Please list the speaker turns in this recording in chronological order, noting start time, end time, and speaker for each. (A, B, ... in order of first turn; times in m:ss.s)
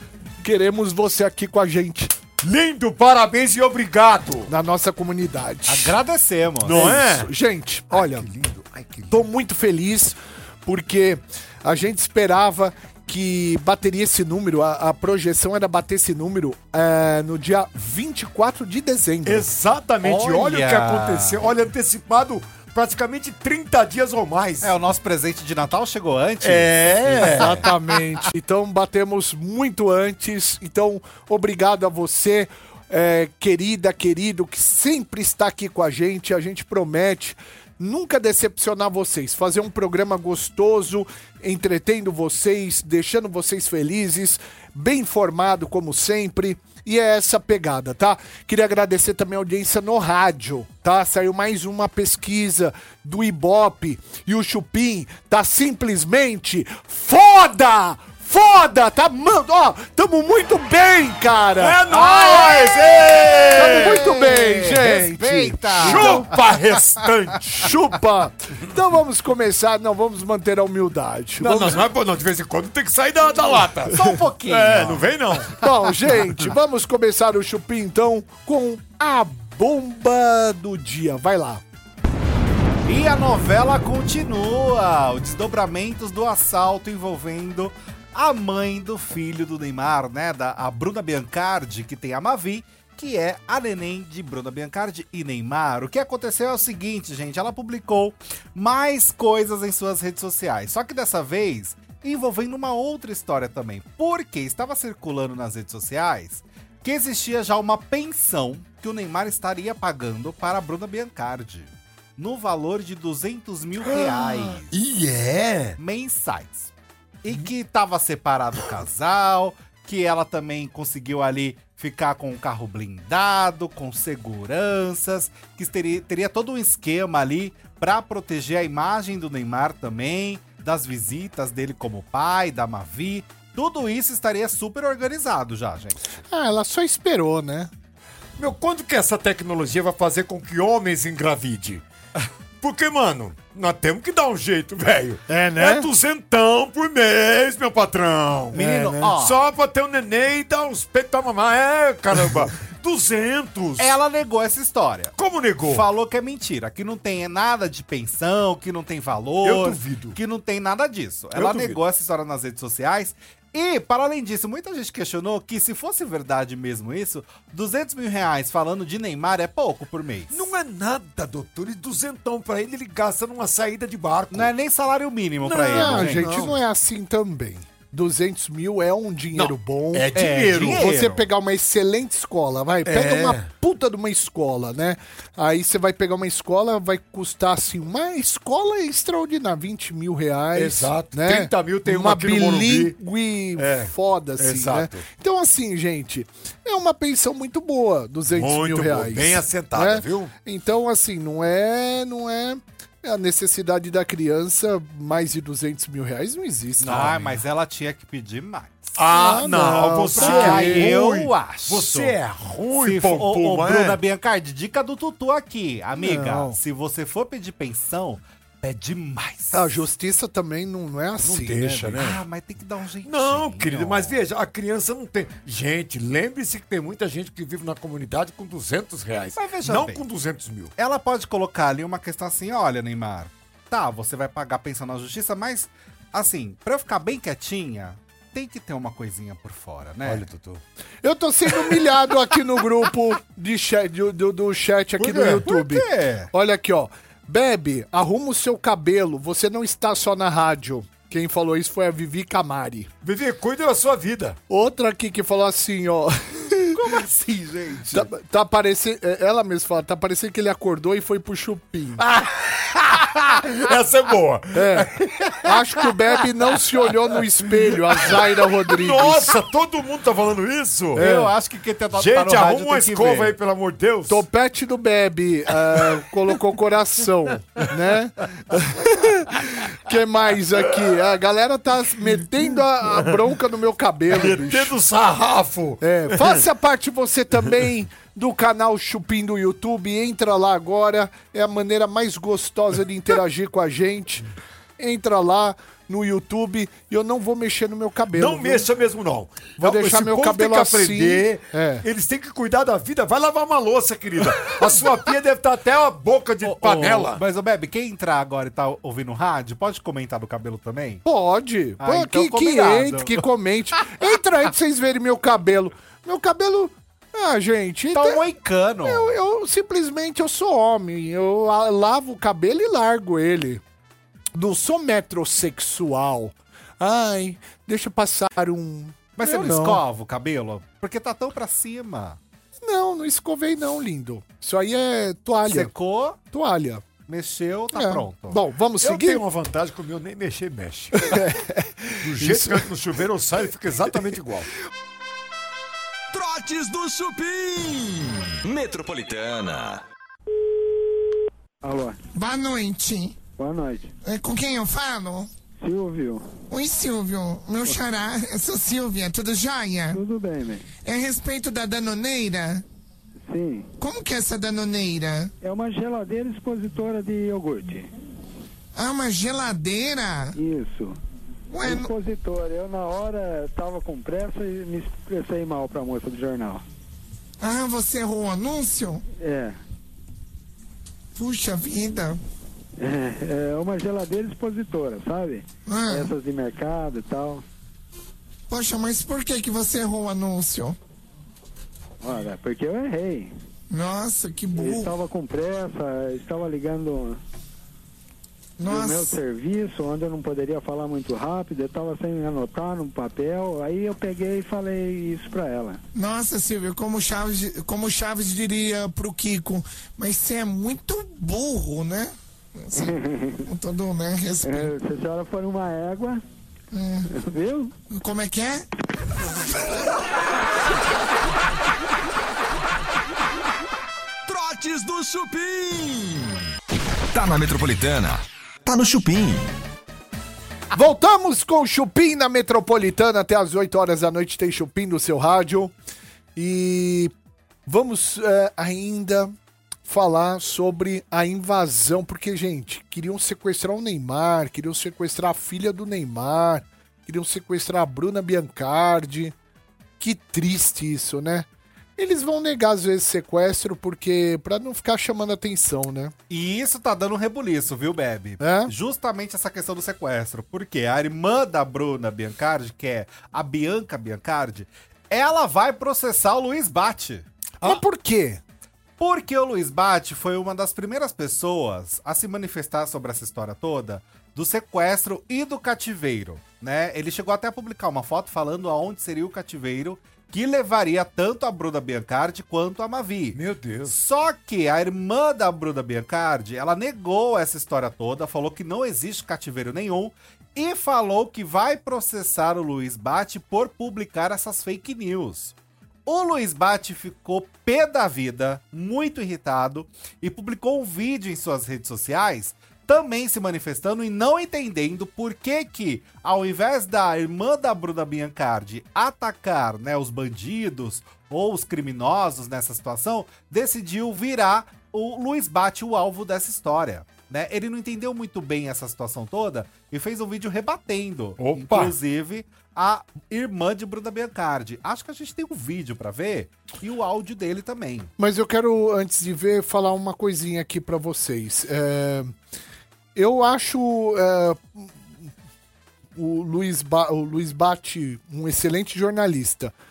0:00.4-0:02.2 A
0:02.4-0:04.5 B
0:04.5-0:06.0 A
0:05.7-0:07.0 C
0:06.6-0:07.3 B
0:06.6-0:08.2 A
0:07.9-0:09.2 B
0:09.1-0:19.5 A
0:19.2-0:24.7 B
0:20.0-0:21.4 C
0:24.6-0:27.7 C
0:26.4-0:27.6 B
0:27.4-1:02.4 A
1:01.6-1:04.2 B
1:01.9-1:06.4 C
1:03.5-1:06.4 A
1:05.8-1:07.7 B
1:07.5-1:11.8 A
1:11.4-1:15.6 B
1:13.9-1:15.1 C
1:15.6-1:21.6 A
1:22.8-1:54.7 C
1:53.8-1:55.8 B
1:55.8-1:56.7 C
1:57.2-2:16.0 C
2:16.3-2:17.7 A
2:18.4-2:21.8 B
2:22.6-2:33.9 B
2:25.3-2:25.9 A
2:28.5-2:29.4 C
2:33.8-2:50.4 C
2:35.2-2:35.8 B
2:39.4-2:40.2 B
2:41.3-2:41.8 B
2:50.3-2:54.5 B
2:54.3-2:56.2 C
2:55.4-2:56.6 B
2:55.5-3:27.1 A
2:59.3-3:01.0 B
3:00.1-3:01.2 C
3:02.8-3:03.5 B
3:10.5-3:12.9 B
3:13.6-3:15.0 B
3:18.3-3:20.3 B
3:26.8-3:27.4 B
3:26.9-3:29.0 C
3:29.0-3:34.0 B
3:29.1-3:31.0 A
3:30.1-3:32.2 C
3:32.7-3:39.8 C
3:36.0-3:36.6 A
3:39.5-3:42.0 A
3:41.2-3:42.2 B
3:42.0-3:44.2 C
3:43.0-3:50.7 B
3:49.4-3:50.0 C
3:50.8-4:00.2 C
4:00.0-4:00.6 B
4:01.0-4:12.9 A
4:05.0-4:05.4 B
4:05.4-4:06.3 C
4:13.0-4:14.4 B
4:14.5-4:16.9 A
4:16.7-4:18.1 C
4:17.9-4:22.0 A
4:22.0-4:25.5 B
4:24.5-4:24.9 A
4:25.4-4:29.4 A
4:27.6-4:31.1 B
4:31.0-4:31.3 A
4:31.0-4:33.4 C
4:31.9-4:34.2 B
4:34.1-4:44.8 A
4:44.1-4:46.4 B
4:45.8-4:54.2 A
4:54.8-4:58.7 A
4:58.1-5:07.2 B
4:59.6-5:01.8 A
5:06.4-5:11.0 C
5:11.0-5:18.2 A
5:11.8-5:13.2 C
5:17.9-5:19.1 C
5:18.8-5:23.6 A
5:24.3-5:29.8 A
5:29.2-5:32.2 C
5:32.6-5:35.7 A
5:35.5-5:36.2 C
5:36.3-5:36.8 A
5:37.1-5:38.4 C
5:37.7-5:39.2 A
5:38.8-5:41.3 B
5:41.0-5:42.7 A
5:42.0-5:44.5 B
5:46.1-5:49.8 D
5:51.6-5:52.0 E
5:52.1-5:53.2 F
5:53.4-5:53.9 E
5:54.0-5:55.3 F
5:55.6-5:56.2 E
5:56.5-6:00.0 F
5:59.9-6:00.6 E
6:00.8-6:02.6 F
6:03.2-6:03.7 E
6:03.8-6:05.3 F
6:05.4-6:07.9 E
6:08.7-6:10.4 F
6:10.3-6:11.0 E
6:11.5-6:11.9 F
6:11.6-6:16.6 E
6:17.4-6:19.0 F
6:19.1-6:19.6 E
6:21.1-6:22.2 F
6:22.8-6:27.4 E
6:25.6-6:26.1 F
6:28.5-6:30.8 F
6:32.0-6:33.3 E
6:33.7-6:34.9 F
6:34.5-6:37.2 E
6:38.6-6:39.1 F
6:38.6-6:45.8 E
6:45.9-6:54.7 F
6:52.7-6:53.4 E
6:54.4-6:56.2 E
6:56.7-6:57.1 F
6:57.1-6:57.7 E
6:57.9-6:58.6 F
7:04.2-7:06.4 D
7:07.1-7:09.5 D
7:10.7-7:15.7 A
7:16.4-7:17.1 A
7:17.6-7:19.3 A
7:19.8-7:29.3 A
7:30.0-7:36.1 A
7:36.3-7:47.8 C
7:38.4-7:38.7 A
7:47.6-7:48.4 A
7:49.0-8:15.5 C
8:03.3-8:04.0 B
8:16.0-8:48.1 C
8:41.4-8:41.9 B
8:48.2-8:52.3 A
8:53.1-8:55.3 A
8:56.1-8:59.7 A